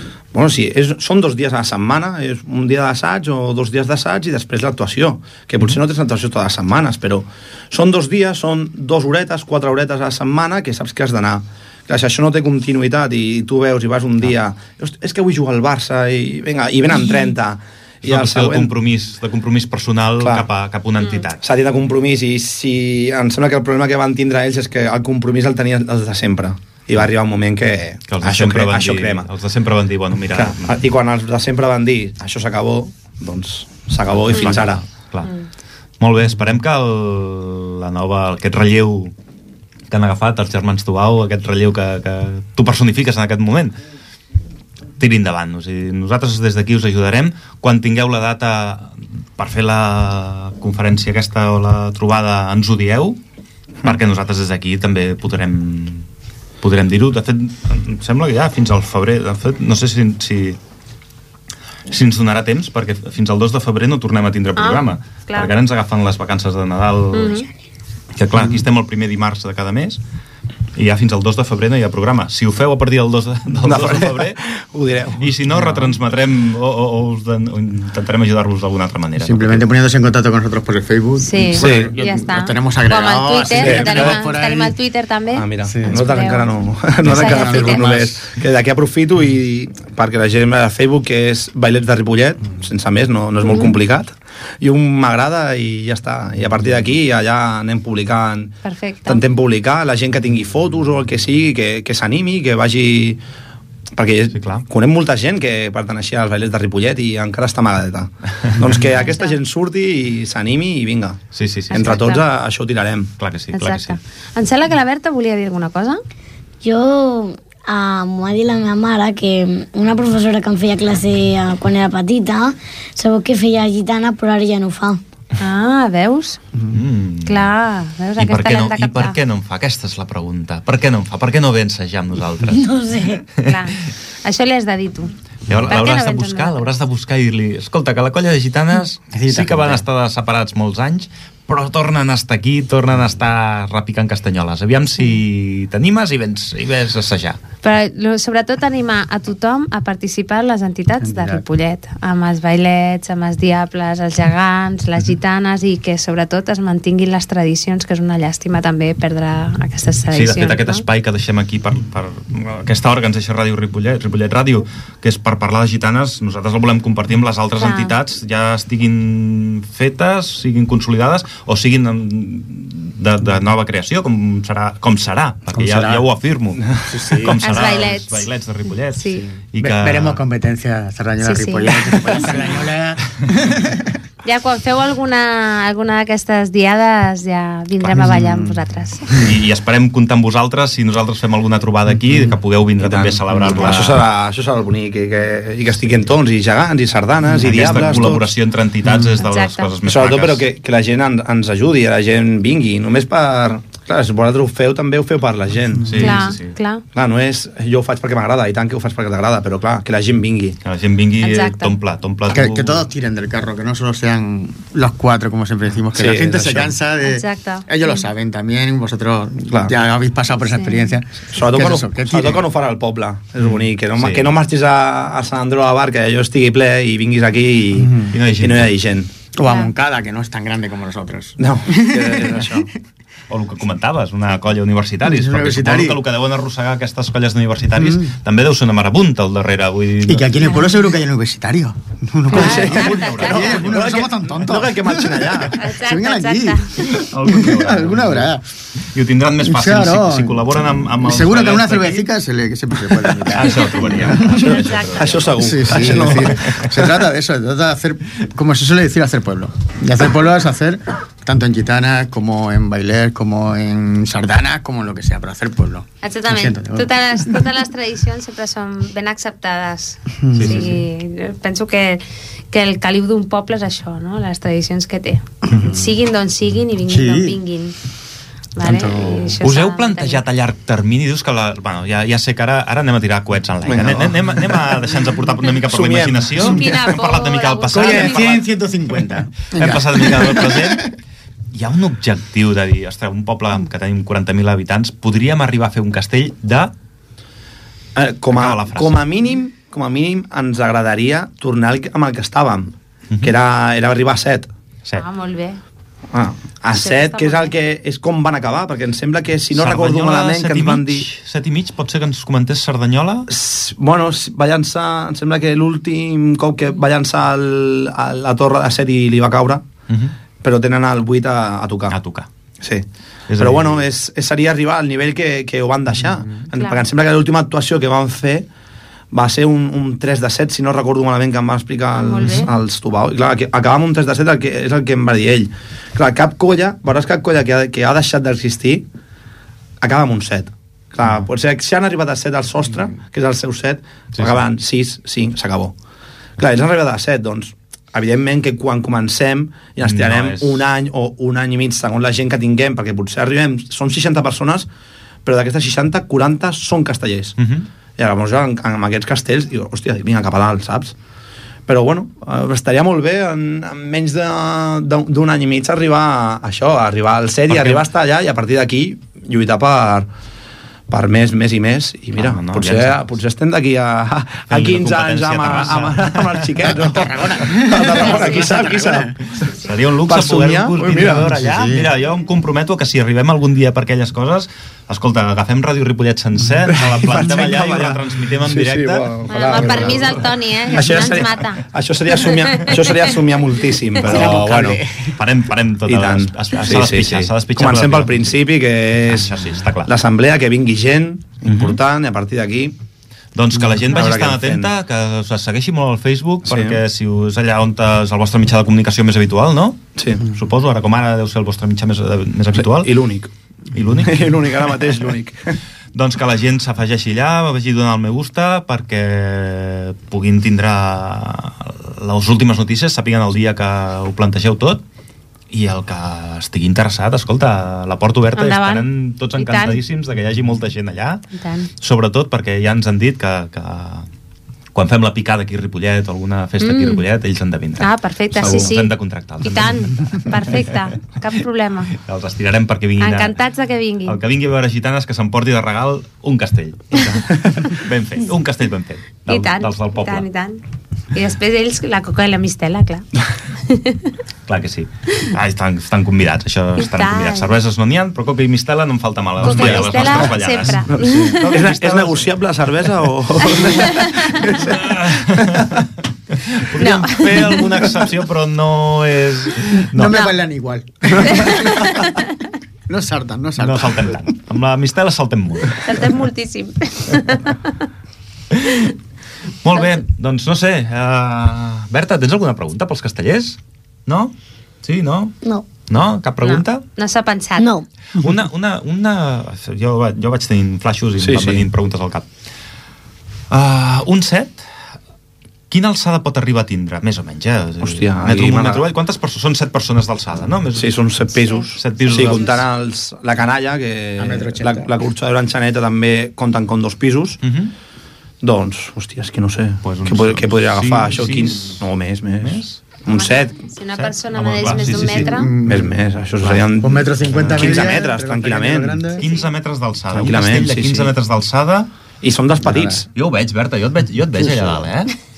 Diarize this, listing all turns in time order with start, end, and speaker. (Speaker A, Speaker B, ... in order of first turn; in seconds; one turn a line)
Speaker A: 0.3-18.7
Speaker B: 18.0-21.4
Speaker A: 20.2-20.5
Speaker A: 21.4-29.3
Speaker B: 28.1-30.8
Speaker A: 30.3-34.8
Speaker B: 34.2-35.3
Speaker B: 36.0-39.1
Speaker B: 39.9-43.8
Speaker B: 45.0-53.2
Speaker B: 53.8-56.1
Speaker B: 56.6-60.6
Speaker B: 61.9-67.5
Speaker C: 64.6-65.5
Speaker C: 67.1-67.5
Speaker B: 68.2-70.0
Speaker B: 70.8-74.4
Speaker A: 73.6-75.3
Speaker B: 75.2-79.7
Speaker D: 79.2-84.8
Speaker C: 81.2-86.5
Speaker A: 81.6-81.9
Speaker A: 83.5-84.2
Speaker A: 85.3-103.2
Speaker D: 85.7-86.0
Speaker D: 87.0-88.3
Speaker C: 87.0-87.9
Speaker C: 93.4-93.8
Speaker C: 98.7-99.2
Speaker A: 104.0-113.1
Speaker B: 104.3-104.7
Speaker C: 108.9-109.4
Speaker B: 111.3-111.9
Speaker C: 111.7-112.2
Speaker B: 113.2-114.0
Speaker C: 113.5-116.0
Speaker E: 116.6-125.0
Speaker C: 125.4-126.4
Speaker B: 126.7-127.5
Speaker C: 127.3-129.2
Speaker B: 128.2-132.7
Speaker E: 132.5-133.3
Speaker C: 133.4-135.2
Speaker B: 135.5-147.4
Speaker C: 135.7-136.7
Speaker D: 139.1-139.8
Speaker C: 147.6-160.8
Speaker D: 151.0-151.4
Speaker B: 160.1-180.2
Speaker C: 167.6-167.9
Speaker D: 175.5-176.1
Speaker D: 176.9-177.4
Speaker C: 177.4-178.3
Speaker C: 178.9-179.2
Speaker D: 179.6-183.9
Speaker C: 181.2-182.4
Speaker C: 184.2-189.2
Speaker D: 187.9-188.6
Speaker B: 189.2-194.0
Speaker A: 192.8-198.3
Speaker D: 193.3-193.7
Speaker B: 197.3-200.4
Speaker C: 199.2-199.7
Speaker A: 199.9-206.2
Speaker B: 205.9-206.6
Speaker C: 206.0-206.8
Speaker A: 206.9-210.6
Speaker B: 210.6-212.9
Speaker C: 211.2-211.8
Speaker D: 212.3-222.5
Speaker A: 215.9-216.8
Speaker C: 217.0-218.1
Speaker A: 219.5-219.7
Speaker C: 220.4-220.9
Speaker A: 221.3-229.1
Speaker B: 223.4-224.3
Speaker D: 227.8-228.1
Speaker B: 228.1-228.8
Speaker D: 229.3-232.6
Speaker C: 229.4-229.7
Speaker A: 231.4-232.7
Speaker B: 233.3-240.7
Speaker D: 235.0-236.0
Speaker D: 237.8-238.1
Speaker D: 240.1-248.4
Speaker C: 242.3-243.6
Speaker A: 242.3-245.6
Speaker B: 242.3-244.0
Speaker C: 245.6-247.0
Speaker B: 246.9-252.1
Speaker D: 249.4-254.5
Speaker B: 253.3-256.5
Speaker C: 254.1-255.1
Speaker A: 255.0-256.7
Speaker D: 255.4-266.9
Speaker C: 266.0-277.8
Speaker D: 270.2-270.8
Speaker B: 270.3-270.8
Speaker D: 275.5-276.0
Speaker D: 276.9-277.4
Speaker C: 278.6-280.2
Speaker D: 278.6-279.4
Speaker B: 279.4-288.4
Speaker A: 283.6-284.9
Speaker A: 285.6-286.9
Speaker C: 286.4-288.4
Speaker D: 287.7-290.9
Speaker B: 289.5-290.9
Speaker B: 291.5-296.7
Speaker A: 297.9-304.5
Speaker B: 298.3-299.0
Speaker C: 305.0-305.6
Speaker A: 306.1-311.1
Speaker C: 306.8-307.5
Speaker B: 309.5-313.3
Speaker A: 313.3-319.6
Speaker A: 320.4-321.9
Speaker B: 321.9-322.3
Speaker B: 323.3-323.9
Speaker A: 323.4-328.5
Speaker C: 326.6-326.9
Speaker A: 329.1-338.9
Speaker C: 331.9-332.5
Speaker A: 339.8-345.7
Speaker A: 346.4-354.7
Speaker B: 349.8-350.6
Speaker A: 355.2-357.4
Speaker B: 357.4-357.6
Speaker A: 358.0-360.9
Speaker A: 361.7-370.1
Speaker B: 367.5-367.9
Speaker A: 370.9-379.2
Speaker B: 372.1-373.1
Speaker B: 374.5-376.5
Speaker D: 376.6-379.2
Speaker C: 378.0-378.8
Speaker C: 379.4-379.7
Speaker B: 379.6-390.1
Speaker A: 380.1-381.3
Speaker D: 380.9-381.9
Speaker A: 386.7-394.8
Speaker C: 389.3-391.6
Speaker C: 392.1-392.9
Speaker B: 394.0-398.4
Speaker D: 394.0-395.2
Speaker A: 395.9-402.7
Speaker B: 399.1-399.9
Speaker B: 401.4-401.8
Speaker B: 403.3-412.9
Speaker A: 403.6-404.7
Speaker A: 406.5-406.8
Speaker A: 410.0-410.2
Speaker A: 412.6-413.3
Speaker B: 413.7-414.4
Speaker A: 414.0-415.6
Speaker B: 415.9-424.8
Speaker B: 425.5-431.2
Speaker C: 428.4-429.8
Speaker C: 431.3-431.7
Speaker B: 431.8-434.1
Speaker B: 434.7-440.7
Speaker C: 436.6-437.0
Speaker C: 437.8-441.9
Speaker B: 441.9-443.4
Speaker C: 443.0-444.2
Speaker B: 444.1-450.3
Speaker C: 449.3-450.6
Speaker C: 451.1-453.1
Speaker C: 453.6-454.1
Speaker B: 454.5-462.3
Speaker C: 456.8-457.5
Speaker C: 459.4-461.4
Speaker A: 459.5-460.0
Speaker A: 460.9-465.8
Speaker C: 463.6-464.5
Speaker B: 464.4-470.3
Speaker C: 466.8-467.9
Speaker D: 469.8-472.0
Speaker C: 470.0-470.4
Speaker C: 471.2-472.3
Speaker D: 472.9-474.3
Speaker B: 473.6-475.9
Speaker C: 475.9-477.8
Speaker B: 478.5-478.9
Speaker B: 479.6-485.4
Speaker B: 485.9-486.9
Speaker C: 486.4-487.7
Speaker E: 487.6-487.9
Speaker B: 488.1-492.3
Speaker A: 491.2-491.6
Speaker B: 493.5-494.7
Speaker B: 495.7-501.0
Speaker A: 497.8-498.9
Speaker A: 500.8-507.4
Speaker C: 501.4-502.5
Speaker B: 501.7-502.6
Speaker D: 504.2-504.9
Speaker B: 507.4-507.7
Speaker A: 508.4-513.6
Speaker B: 509.8-511.9
Speaker B: 512.4-512.8
Speaker C: 513.1-515.5
Speaker B: 513.9-515.4
Speaker D: 515.1-519.2
Speaker A: 515.6-519.2
Speaker B: 517.2-517.7
Speaker B: 519.2-521.9
Speaker C: 519.2-519.5
Speaker A: 520.1-521.1
Speaker A: 522.2-523.1
Speaker D: 522.6-523.0
Speaker B: 523.1-525.1
Speaker D: 524.4-524.9